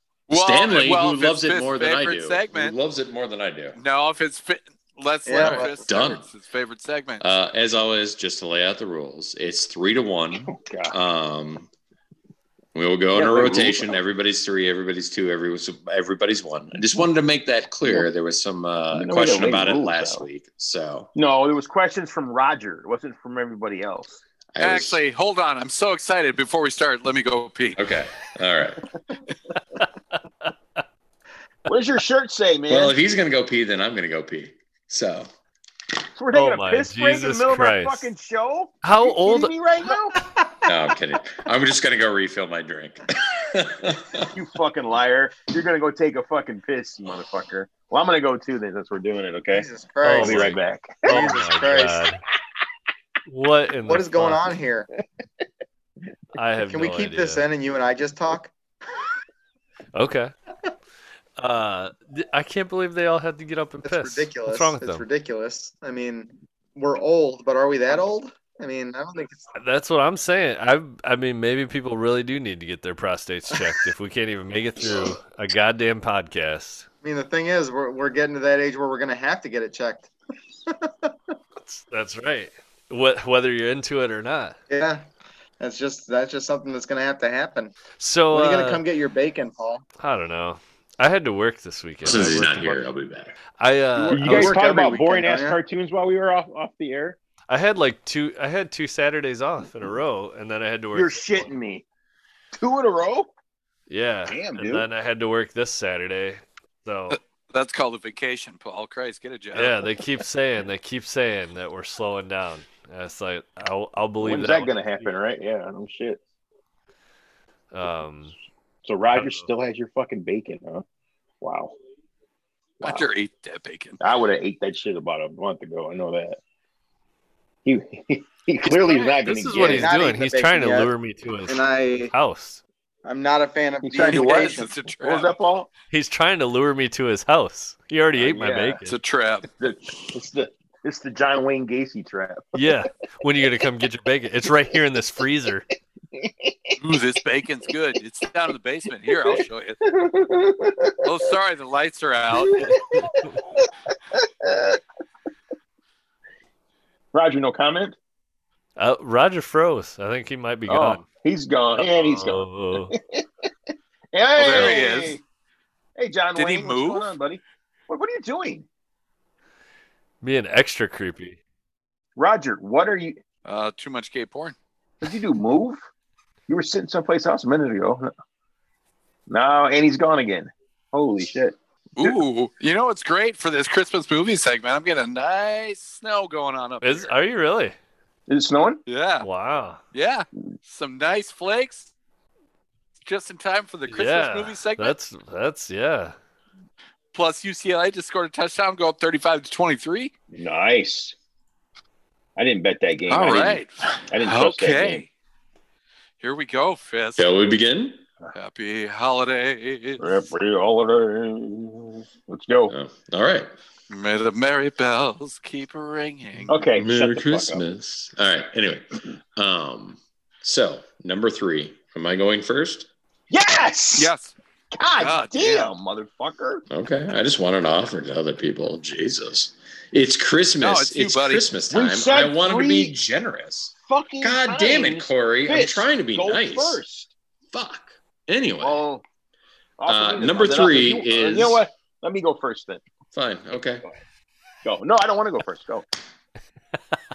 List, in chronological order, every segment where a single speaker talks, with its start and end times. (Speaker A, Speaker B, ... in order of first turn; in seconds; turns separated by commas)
Speaker A: 0.3-2.8, Speaker B: 0.3-3.8, Speaker A: 3.8-7.2, Speaker C: 5.3-5.8, Speaker B: 5.4-6.3, Speaker B: 7.2-11.7, Speaker D: 10.4-11.0, Speaker B: 12.8-21.1, Speaker D: 13.1-14.0, Speaker D: 18.9-20.2, Speaker D: 21.1-24.2, Speaker B: 24.5-25.0, Speaker A: 24.6-27.8, Speaker B: 27.8-28.9, Speaker D: 31.7-33.0, Speaker B: 32.7-35.3, Speaker D: 36.2-40.2, Speaker E: 36.3-38.1, Speaker E: 38.8-39.5, Speaker B: 40.6-44.3, Speaker D: 44.3-51.4, Speaker C: 49.5-50.5, Speaker E: 50.0-52.2, Speaker C: 51.1-52.0, Speaker E: 53.3-54.5, Speaker C: 53.9-54.9, Speaker E: 56.4-57.5, Speaker C: 56.7-58.5, Speaker E: 59.9-60.3, Speaker E: 61.4-65.0, Speaker C: 63.8-69.5, Speaker E: 69.6-76.9, Speaker B: 74.8-75.1, Speaker C: 77.0-80.1, Speaker C: 80.7-81.1, Speaker E: 81.6-84.6, Speaker C: 84.7-85.0, Speaker C: 85.6-87.8, Speaker E: 88.0-88.8, Speaker C: 88.3-89.8, Speaker E: 90.0-92.8, Speaker B: 92.0-93.4, Speaker E: 93.6-94.6, Speaker C: 94.0-95.6, Speaker D: 94.0-97.2, Speaker E: 97.5-101.5, Speaker D: 100.9-101.8, Speaker D: 102.5-103.3, Speaker E: 103.9-107.2, Speaker D: 104.3-104.9, Speaker A: 107.1-110.0, Speaker E: 109.5-114.9, Speaker D: 114.2-116.2, Speaker E: 117.7-118.3, Speaker D: 118.9-120.9, Speaker E: 119.1-119.5, Speaker D: 121.4-121.8, Speaker D: 122.8-123.1, Speaker A: 122.8-124.0, Speaker D: 124.0-126.4, Speaker D: 127.7-129.9, Speaker E: 128.7-132.6, Speaker C: 129.6-130.9, Speaker C: 131.5-132.1, Speaker C: 133.1-134.7, Speaker D: 133.8-135.7, Speaker A: 134.0-135.3, Speaker E: 135.9-139.0, Speaker D: 138.2-138.8, Speaker A: 138.9-139.5, Speaker D: 139.6-142.7, Speaker E: 142.5-145.7, Speaker D: 146.1-146.8, Speaker A: 146.8-149.8, Speaker D: 149.2-151.1, Speaker A: 151.0-152.8, Speaker D: 152.4-154.8, Speaker E: 152.8-153.3, Speaker D: 157.1-158.0, Speaker E: 158.8-161.1, Speaker D: 160.7-163.2, Speaker E: 161.8-162.9, Speaker D: 164.1-165.2, Speaker A: 164.4-165.2, Speaker D: 166.0-168.7, Speaker A: 166.4-167.1, Speaker E: 170.2-171.4, Speaker D: 172.2-173.2, Speaker A: 173.4-174.6, Speaker D: 175.0-175.8, Speaker D: 176.5-178.1, Speaker D: 179.3-182.2, Speaker A: 182.0-187.1, Speaker E: 186.8-187.8, Speaker D: 188.3-188.8, Speaker A: 188.9-189.3, Speaker E: 189.2-189.8, Speaker A: 189.9-191.9, Speaker A: 193.1-194.9, Speaker E: 193.9-196.2, Speaker A: 197.1-200.1, Speaker D: 200.3-201.2, Speaker D: 202.4-205.1, Speaker A: 203.1-205.1, Speaker A: 206.2-207.3, Speaker B: 207.2-208.0, Speaker A: 208.3-210.1, Speaker D: 210.0-212.8, Speaker B: 212.7-213.5, Speaker A: 213.9-216.6, Speaker D: 216.5-217.6, Speaker B: 216.8-222.9, Speaker D: 223.3-224.1, Speaker A: 224.0-224.3, Speaker D: 224.7-226.7, Speaker A: 225.0-225.7, Speaker B: 226.7-236.8, Speaker A: 230.6-231.5, Speaker D: 231.7-232.9, Speaker D: 233.9-237.1, Speaker B: 237.5-238.8, Speaker D: 238.6-239.0, Speaker D: 239.8-242.8, Speaker B: 239.9-241.6, Speaker B: 243.1-243.9, Speaker D: 244.6-245.9